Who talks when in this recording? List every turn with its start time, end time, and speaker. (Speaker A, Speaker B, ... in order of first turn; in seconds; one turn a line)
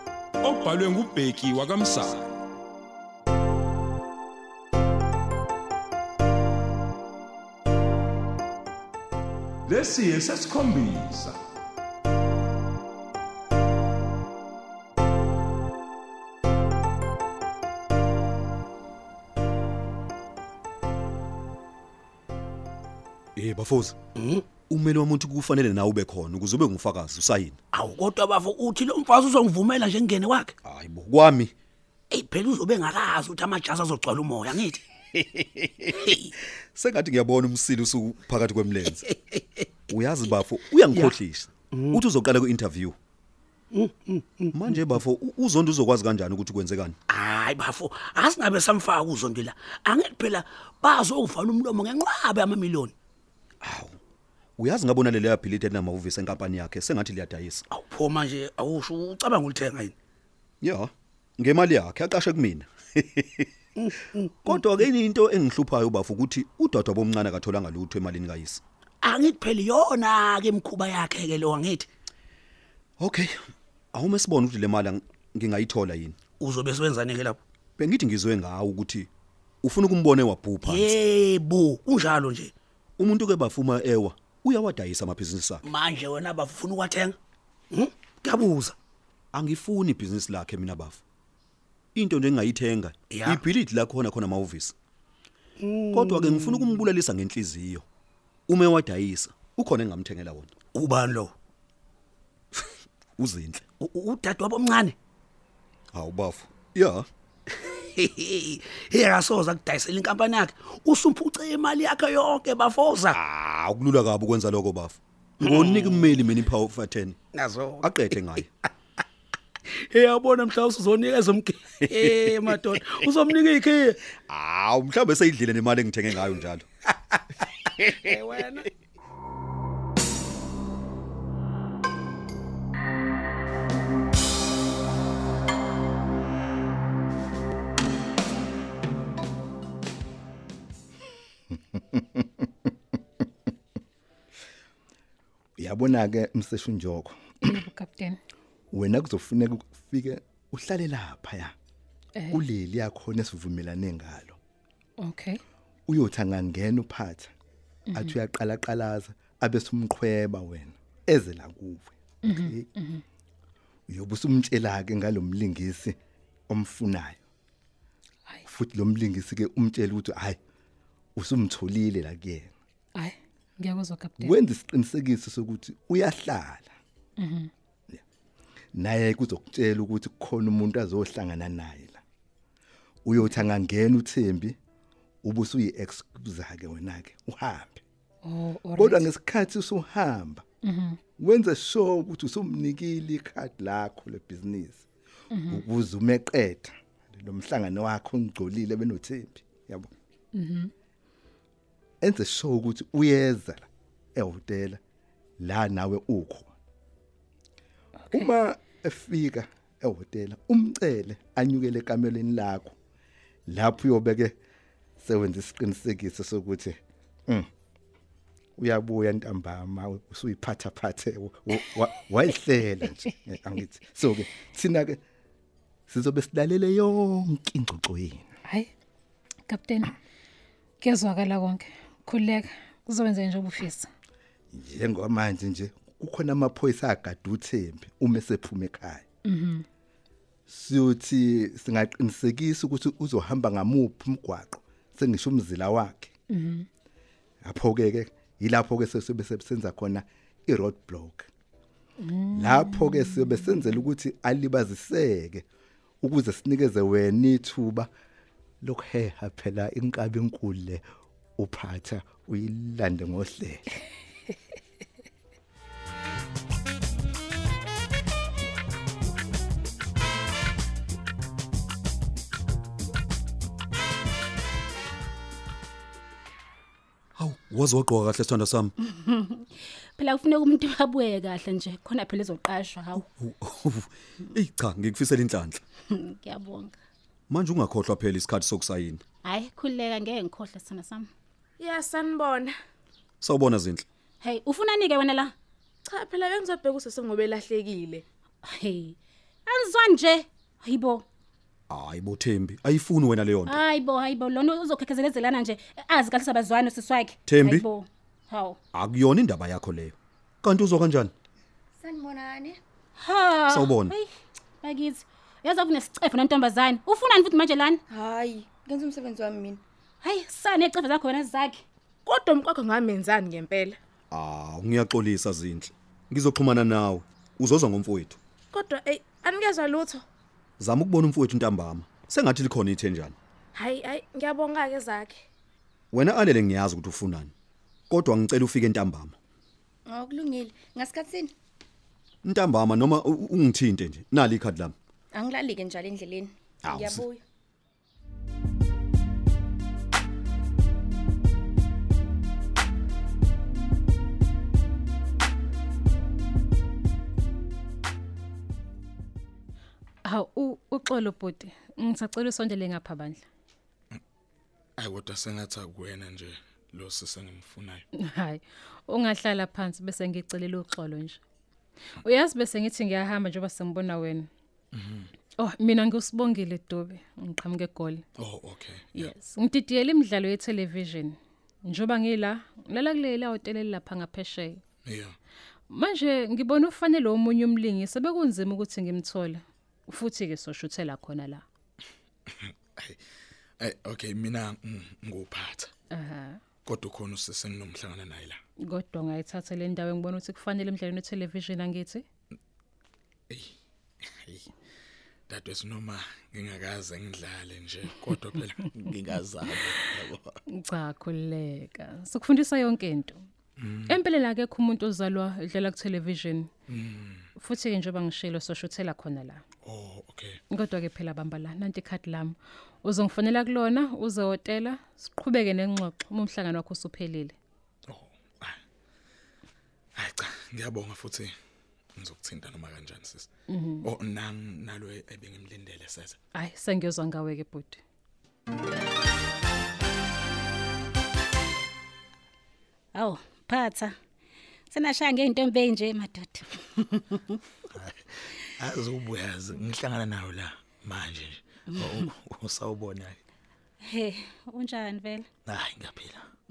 Speaker A: 0.4-2.3
Speaker A: 9.7-11.4
Speaker B: 23.4-23.9
Speaker C: 24.2-24.4
Speaker B: 24.7-27.6
Speaker C: 27.7-30.5
Speaker B: 30.6-31.5
Speaker C: 32.1-35.2
Speaker B: 36.7-39.0
Speaker B: 39.9-42.9
Speaker C: 43.7-44.5
Speaker B: 44.5-47.0
Speaker C: 47.1-52.9
Speaker B: 53.6-54.0
Speaker B: 54.6-57.6
Speaker C: 57.7-59.9
Speaker B: 60.6-63.5
Speaker C: 63.8-64.2
Speaker B: 64.4-68.6
Speaker C: 69.0-71.9
Speaker B: 73.0-73.3
Speaker B: 73.9-76.2
Speaker C: 76.4-77.4
Speaker B: 77.8-79.1
Speaker B: 79.6-81.0
Speaker C: 80.7-82.5
Speaker B: 83.0-85.6
Speaker C: 85.7-87.2
Speaker C: 87.7-88.7
Speaker B: 89.3-91.0
Speaker B: 91.9-94.7
Speaker C: 93.1-93.4
Speaker C: 95.6-96.6
Speaker B: 95.9-97.8
Speaker B: 98.5-100.5
Speaker C: 100.7-101.3
Speaker B: 103.2-103.6
Speaker C: 103.8-104.9
Speaker B: 105.9-107.1
Speaker C: 107.9-113.2
Speaker B: 113.1-117.2
Speaker C: 115.4-116.0
Speaker C: 117.3-117.9
Speaker B: 117.8-118.5
Speaker C: 119.7-124.0
Speaker B: 121.8-123.2
Speaker B: 124.3-126.7
Speaker C: 127.8-128.6
Speaker D: 141.5-142.7
Speaker D: 145.6-147.6
Speaker E: 147.4-148.2
Speaker D: 148.7-151.5
Speaker E: 152.2-152.4
Speaker D: 152.3-154.4
Speaker E: 155.0-155.4
Speaker D: 155.9-157.3
Speaker E: 157.9-158.1
Speaker D: 157.9-162.7
Speaker E: 162.2-163.0
Speaker D: 163.9-165.9
Speaker D: 166.5-167.2
Speaker D: 168.5-170.4
Speaker D: 171.2-172.5
Speaker E: 172.9-174.3
Speaker D: 174.2-176.7
Speaker E: 177.2-177.5
Speaker D: 178.7-182.0
Speaker D: 183.0-184.6
Speaker D: 185.2-187.8
Speaker E: 188.2-189.1
Speaker D: 188.7-190.4
Speaker E: 190.6-191.0
Speaker D: 191.2-194.9
Speaker E: 195.3-195.6
Speaker D: 195.5-199.9
Speaker E: 200.3-200.7
Speaker D: 202.0-204.8
Speaker D: 205.4-206.5
Speaker D: 208.1-212.8
Speaker D: 213.5-214.3
Speaker D: 215.0-217.5
Speaker D: 218.6-225.0
Speaker D: 225.9-228.2
Speaker E: 228.4-228.7
Speaker E: 229.5-229.9
Speaker E: 230.8-233.9
Speaker D: 234.5-239.0
Speaker E: 239.2-239.6
Speaker D: 240.5-246.1
Speaker E: 246.3-246.7
Speaker D: 247.4-251.3
Speaker E: 252.0-253.6
Speaker D: 252.3-255.4
Speaker D: 256.0-257.9
Speaker D: 258.6-260.8
Speaker D: 261.4-263.7
Speaker B: 277.2-278.7
Speaker F: 278.8-283.0
Speaker B: 283.0-285.6
Speaker F: 285.9-286.8
Speaker B: 287.3-289.0
Speaker F: 289.2-291.1
Speaker G: 291.6-292.6
Speaker B: 293.2-293.9
Speaker F: 294.2-295.3
Speaker G: 295.9-298.0
Speaker F: 298.4-298.9
Speaker F: 299.5-301.0
Speaker B: 301.7-303.6
Speaker F: 303.5-308.6
Speaker B: 307.3-307.6
Speaker B: 308.7-311.1
Speaker H: 311.8-312.6
Speaker F: 313.0-314.1
Speaker B: 313.5-313.9
Speaker F: 314.6-317.8
Speaker H: 317.9-319.6
Speaker F: 320.0-321.6
Speaker G: 322.1-323.8
Speaker B: 324.1-328.2
Speaker G: 328.5-330.0
Speaker B: 330.6-333.1
Speaker G: 333.5-335.2
Speaker B: 335.9-337.3
Speaker B: 337.9-339.1
Speaker H: 339.9-341.3
Speaker B: 342.2-344.7
Speaker H: 345.1-347.2
Speaker B: 346.6-347.1
Speaker E: 360.0-363.2
Speaker I: 364.8-367.8
Speaker E: 367.9-371.2
Speaker E: 372.0-374.3
Speaker I: 374.7-375.1
Speaker E: 375.4-378.0
Speaker I: 378.2-379.1
Speaker E: 378.9-384.6
Speaker I: 384.8-385.1
Speaker E: 385.7-391.4
Speaker I: 393.6-395.7
Speaker E: 395.9-396.4
Speaker I: 396.6-398.4
Speaker E: 398.7-402.0
Speaker I: 405.3-410.3
Speaker E: 410.5-413.2
Speaker I: 413.6-414.0
Speaker E: 413.9-416.5
Speaker I: 416.7-417.3
Speaker E: 417.4-419.4
Speaker I: 419.6-420.4
Speaker E: 420.5-427.4
Speaker I: 427.9-428.6
Speaker I: 429.9-431.3
Speaker I: 431.9-433.3
Speaker E: 433.5-433.9
Speaker I: 433.8-436.2
Speaker E: 436.3-437.8
Speaker F: 442.9-443.9
Speaker F: 444.7-447.4
Speaker I: 448.6-453.2
Speaker F: 453.9-455.3
Speaker I: 455.4-456.3